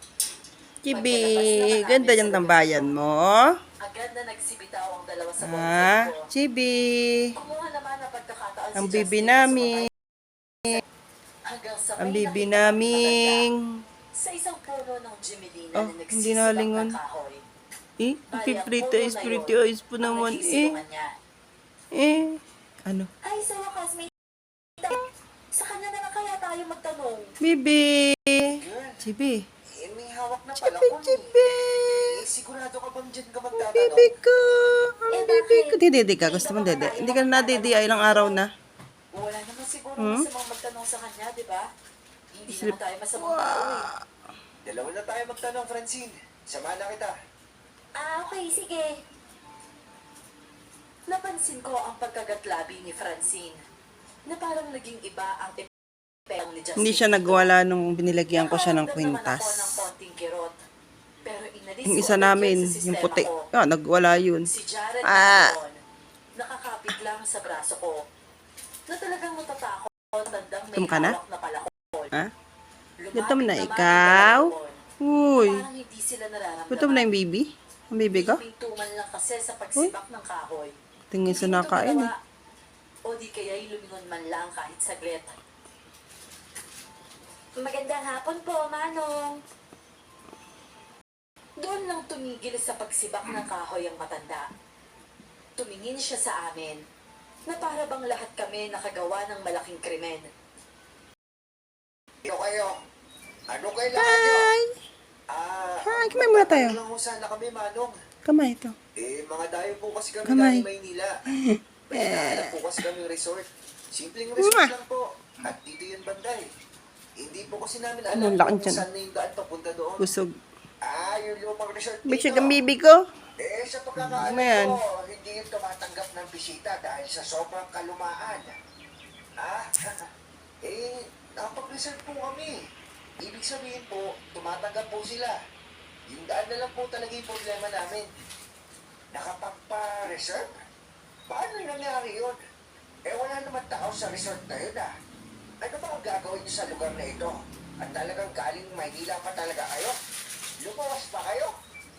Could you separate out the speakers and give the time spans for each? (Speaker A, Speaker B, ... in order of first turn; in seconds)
Speaker A: 0.8-3.5, 5.4-7.2, 8.8-9.9, 12.0-13.8, 15.8-16.9, 18.0-20.8, 21.9-23.1, 27.4-29.4, 30.6-32.2, 33.5-38.5, 40.0-40.2, 42.5-44.0, 56.8-59.8, 61.9-64.5, 65.1-65.5, 70.8-71.2, 73.2-74.5, 75.0-75.7, 76.7-78.4, 81.1-82.1, 104.0-104.7, 105.8-106.8, 108.3-108.8, 110.3-110.7, 111.4-112.6, 114.4-114.7, 118.2-118.8, 120.0-120.3, 122.1-123.0, 124.0-124.7
Speaker B: 0.9-3.0, 3.8-6.3, 7.3-9.8, 11.5-13.5, 14.2-17.4, 18.3-21.1, 23.2-24.1, 25.5-27.3, 35.1-38.4, 39.1-41.7, 42.3-43.9, 48.0-49.0, 51.1-53.6, 54.3-55.7, 56.3-57.5, 58.3-60.6, 61.2-63.5, 64.5-65.8, 66.4-68.0, 68.9-72.1, 73.0-74.8, 75.4-77.1, 78.1-80.7, 81.3-82.1, 83.1-85.3, 87.6-89.3, 91.6-94.5, 95.6-96.8, 97.5-100.3
Speaker C: 28.4-29.0, 29.8-31.3, 31.9-34.1, 44.6-47.1, 102.2-102.8, 103.5-104.5, 105.3-108.0, 109.0-111.1, 111.9-116.5, 117.2-120.1, 120.8-122.6, 123.4-128.6, 129.4-130.1, 130.6-132.6, 133.2-135.4, 136.1-138.1, 139.1-140.6, 141.3-142.4, 143.1-144.9, 145.6-149.9, 150.6-151.5